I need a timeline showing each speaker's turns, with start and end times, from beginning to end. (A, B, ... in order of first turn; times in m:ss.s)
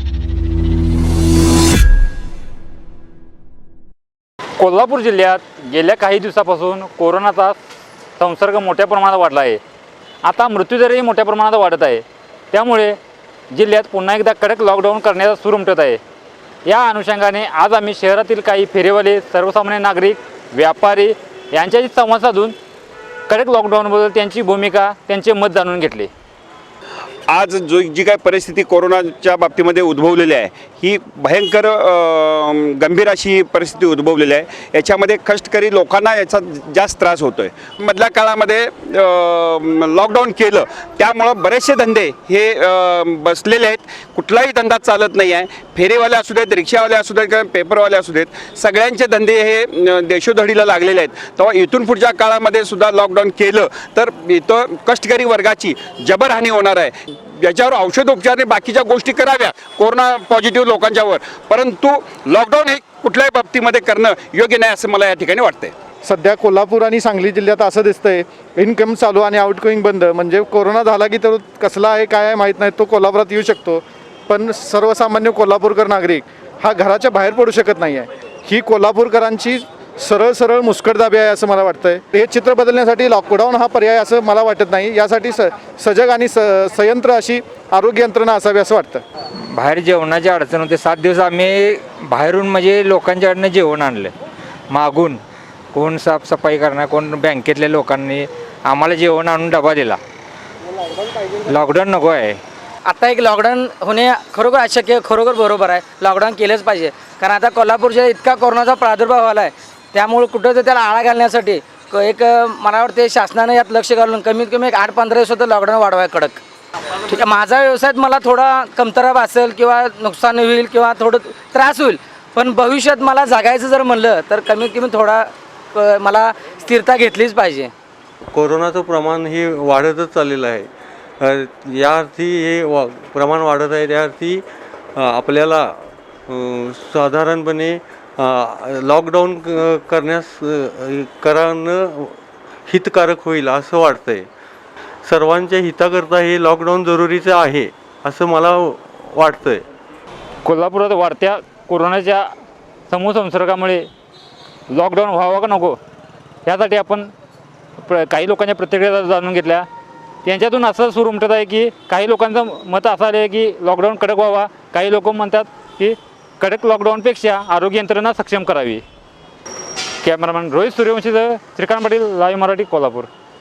0:04.6-0:07.6 A
0:08.2-0:09.6 A
0:10.2-0:13.0 A
0:13.5-0:16.0 A
0:16.7-0:22.6 A
0:23.3-0:26.1 A
0:27.3-1:05.7 B
1:06.0-1:29.0 C
1:29.5-1:34.1 D
1:34.7-1:35.2 D
1:35.7-1:40.0 D
1:41.5-1:42.4 D
1:42.8-1:56.4 E
1:57.1-2:07.7 E
2:08.3-2:14.4 F
2:15.0-2:24.3 F
2:25.0-2:29.6 F
2:30.4-2:32.3 A
2:32.9-2:33.9 A
2:34.7-2:35.8 A
2:36.5-2:37.1 A
2:37.8-2:39.7 A
2:40.2-2:48.8 A
2:50.0-2:53.1 A